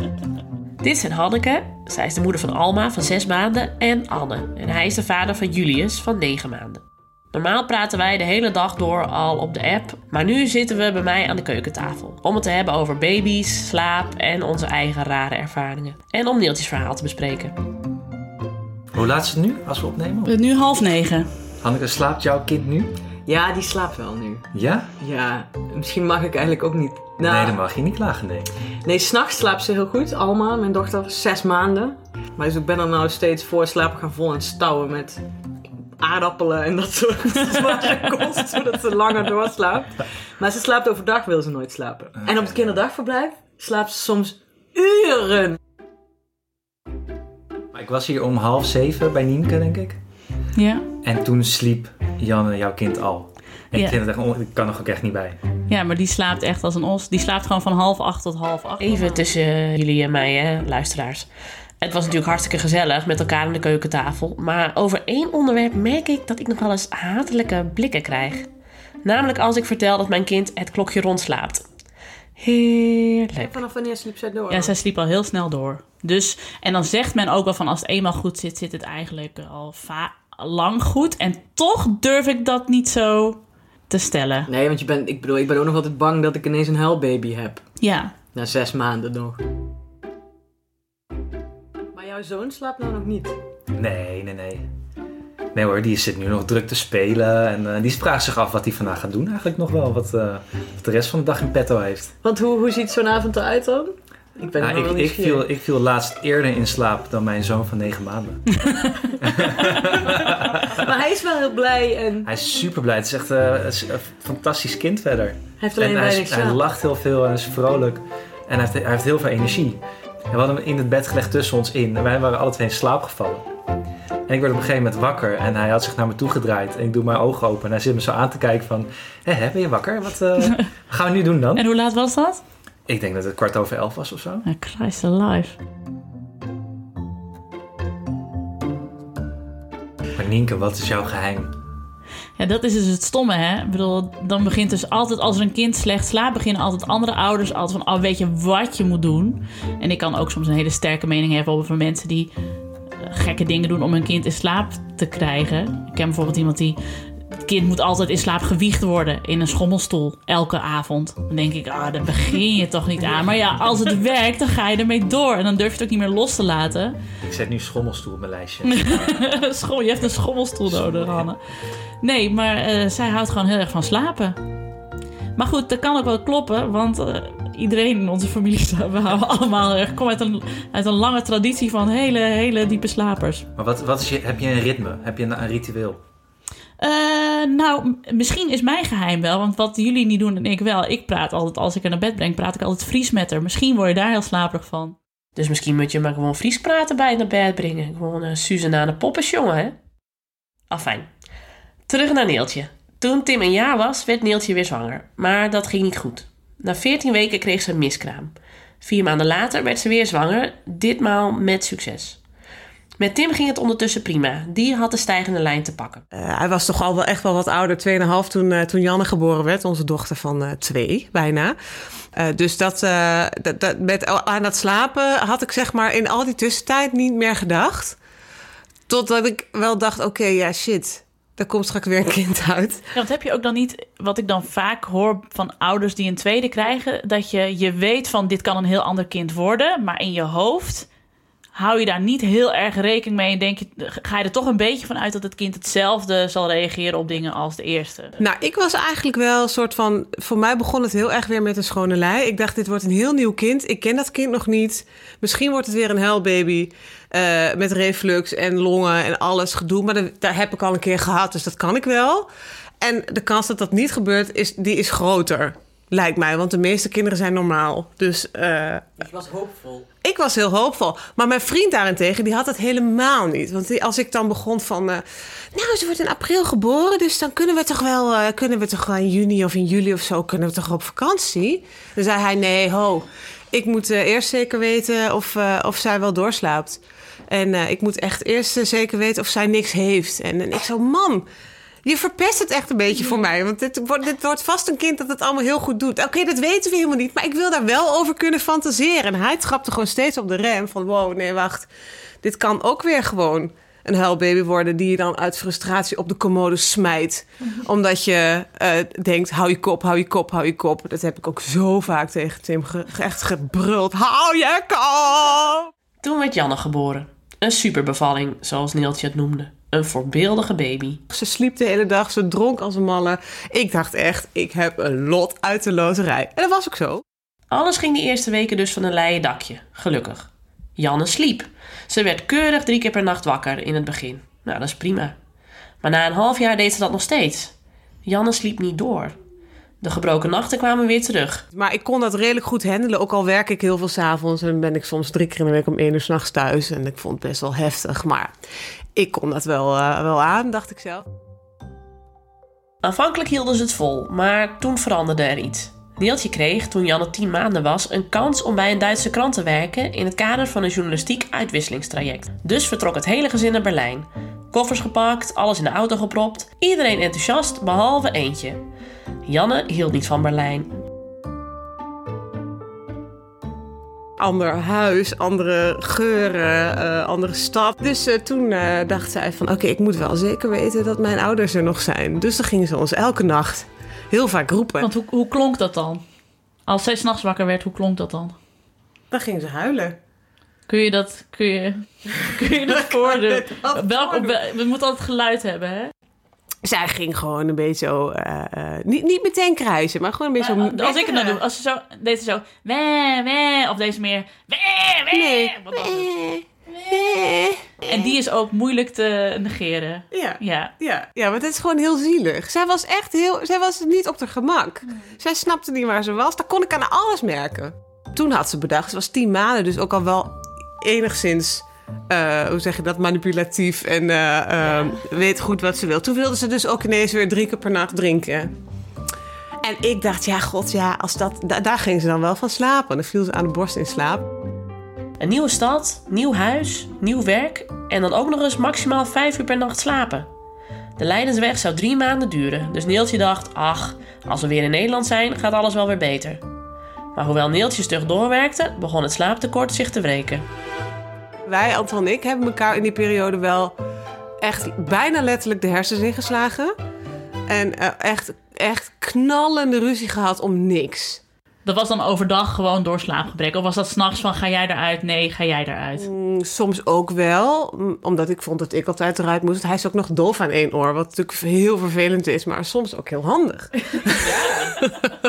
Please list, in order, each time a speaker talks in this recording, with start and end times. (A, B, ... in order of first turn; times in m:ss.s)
0:00.8-0:06.8 A
0:07.3-0:17.6 A
0:18.9-0:20.3 B
0:20.3-0:21.3 C
0:21.6-0:23.0 B
0:23.3-0:24.5 D
0:24.5-0:24.9 B
0:25.0-0:27.6 D
0:27.2-0:28.5 B
0:28.8-0:35.2 D
0:36.0-0:45.6 D
0:42.2-0:42.8 B
0:47.7-0:50.0 B
0:50.6-0:50.8 C
0:51.0-0:55.4 B
0:55.7-0:59.2 C
0:58.8-1:01.3 A
1:01.8-1:08.5 A
1:09.0-1:11.6 A
1:12.4-1:13.5 A
1:13.3-1:14.7 D
1:14.5-1:24.5 C
1:24.5-1:27.7 D
1:27.8-1:28.1 C
1:28.3-1:29.4 D
1:31.9-1:33.4 D
1:33.7-1:34.7 B
1:35.5-1:42.1 B
1:42.2-1:45.5 D
1:44.6-1:48.6 B
1:49.2-1:50.7 B
1:50.7-1:52.3 D
1:52.2-2:03.4 B
1:55.6-1:56.6 D
2:04.3-2:11.7 B
2:11.6-2:12.4 C
2:12.9-2:14.5 B
2:14.5-2:15.6 C
2:20.2-2:21.5 B
2:22.4-2:32.3 C
2:33.0-2:36.8 C
2:37.4-2:47.0 C
2:47.2-2:49.3 B
2:48.7-2:51.4 C
2:50.7-2:51.3 B
2:52.0-2:54.4 C
2:55.4-3:03.5 C
3:03.6-3:06.0 B
3:06.8-3:15.0 C
3:15.4-3:19.8 A
3:20.7-3:21.1 A
3:21.9-3:32.2 A
3:33.0-3:36.0 A
3:36.1-3:41.6 E
3:42.2-3:48.0 E
3:48.9-3:52.8 E
3:53.0-4:00.9 C
4:01.6-4:08.2 C
4:08.2-4:22.3 E
4:22.8-4:29.0 E
4:29.0-4:29.9 D
4:30.0-4:51.3 E
4:51.8-5:01.7 E
5:02.2-5:15.7 E
5:16.0-5:21.0 A
5:21.1-5:27.0 E
5:27.5-5:35.2 A
5:35.8-5:37.5 A
5:38.0-5:39.2 A
5:39.8-5:41.4 A
5:41.5-5:48.3 E
5:49.0-5:51.1 E
5:52.8-6:08.6 A
6:09.2-6:10.7 A
6:14.2-6:24.9 E
6:24.8-6:26.0 C
6:26.7-6:28.4 C
6:29.1-6:30.0 E
6:30.7-6:35.9 C
6:32.8-6:34.4 E
6:36.6-6:41.4 E
6:40.4-6:46.1 C
6:45.1-6:48.2 E
6:47.9-6:50.7 C
6:50.1-7:08.5 E
7:09.6-7:14.2 E
7:15.2-7:20.3 A
7:21.0-7:26.4 A
7:27.2-7:30.4 A
7:31.5-7:33.8 E
7:34.4-7:36.7 E
7:37.5-7:41.2 E
7:41.6-7:46.1 C
7:46.0-7:54.9 E
7:54.2-7:54.8 D